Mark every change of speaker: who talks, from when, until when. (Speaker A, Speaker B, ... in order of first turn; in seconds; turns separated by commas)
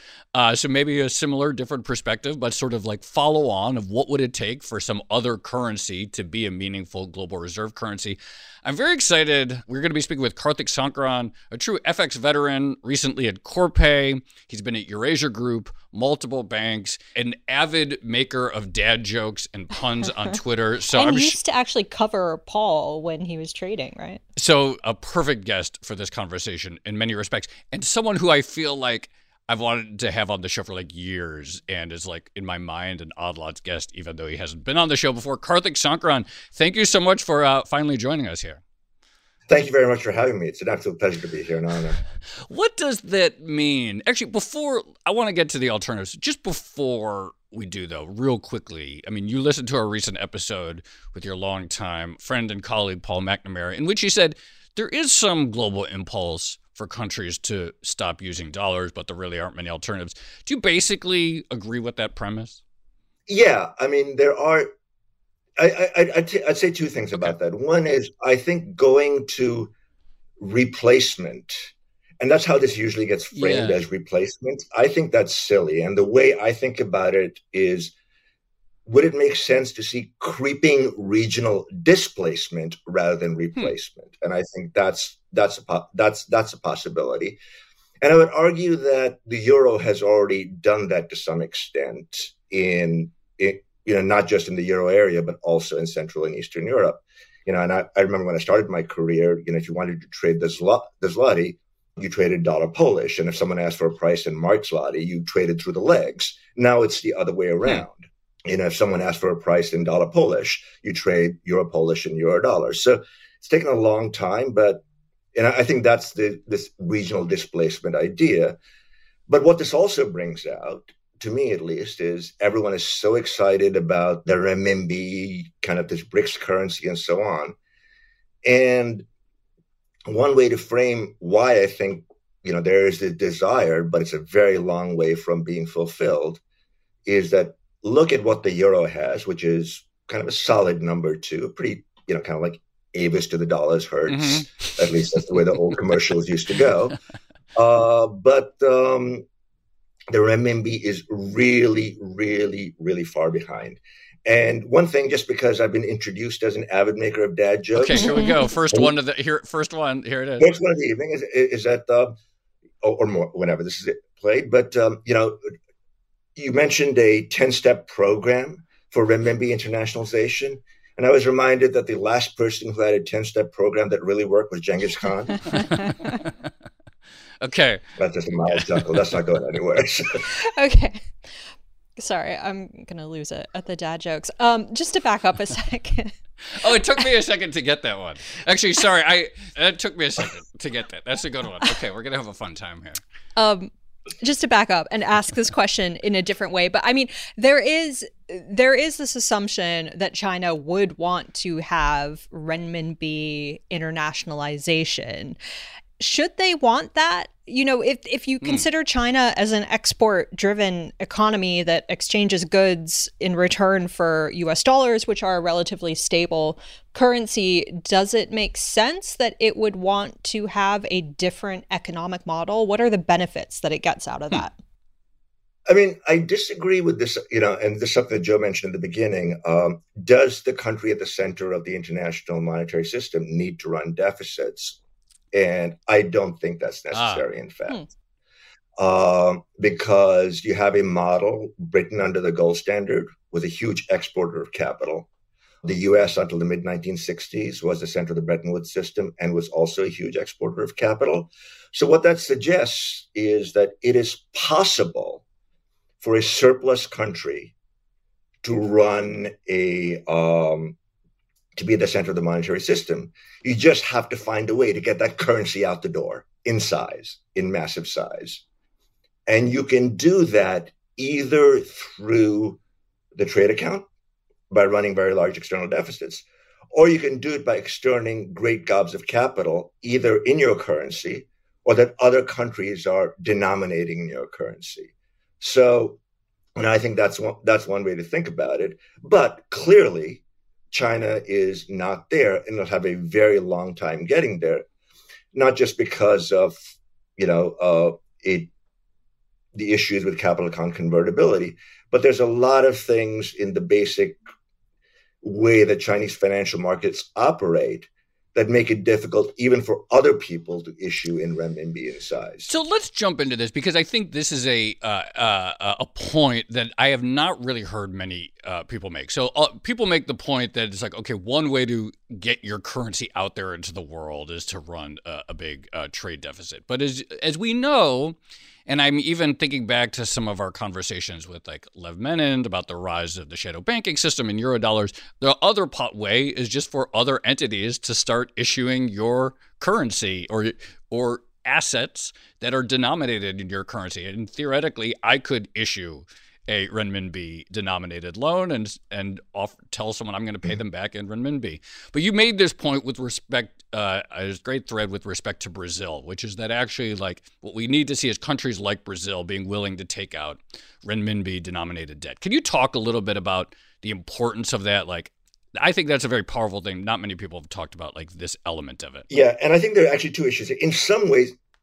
Speaker A: 0.3-21.4, Speaker B: 20.9-24.2, Speaker A: 24.4-38.6, Speaker C: 39.5-42.0, Speaker A: 42.4-62.6, Speaker C: 63.3-64.7, Speaker C: 65.6-69.7, Speaker C: 70.4-77.9, Speaker A: 73.3-73.8, Speaker C: 78.8-87.4, Speaker C: 88.0-114.8, Speaker C: 115.3-118.6, Speaker C: 119.3-127.5, Speaker C: 128.4-129.1, Speaker C: 130.1-136.4, Speaker C: 137.1-147.0, Speaker A: 144.1-144.9, Speaker C: 147.5-149.2, Speaker C: 150.1-158.9, Speaker A: 157.7-160.6, Speaker B: 158.0-158.5, Speaker C: 160.4-162.2, Speaker C: 162.8-165.5, Speaker C: 166.3-175.6, Speaker A: 177.4-177.8, Speaker C: 178.0-180.2, Speaker A: 178.5-179.0, Speaker B: 180.2-181.1, Speaker B: 182.0-187.0, Speaker A: 186.5-193.0, Speaker B: 193.3-205.4, Speaker B: 206.0-224.6, Speaker C: 225.7-234.8, Speaker C: 235.3-237.8, Speaker A: 236.9-237.2, Speaker C: 238.8-245.1, Speaker C: 245.6-255.2, Speaker C: 256.0-257.5, Speaker C: 258.4-260.8, Speaker C: 261.6-268.4, Speaker C: 269.3-272.6, Speaker C: 273.1-273.9, Speaker C: 274.5-286.0, Speaker C: 286.6-294.6, Speaker C: 295.3-298.5, Speaker C: 299.5-304.2, Speaker C: 305.2-312.5, Speaker A: 312.5-369.1, Speaker C: 369.1-371.3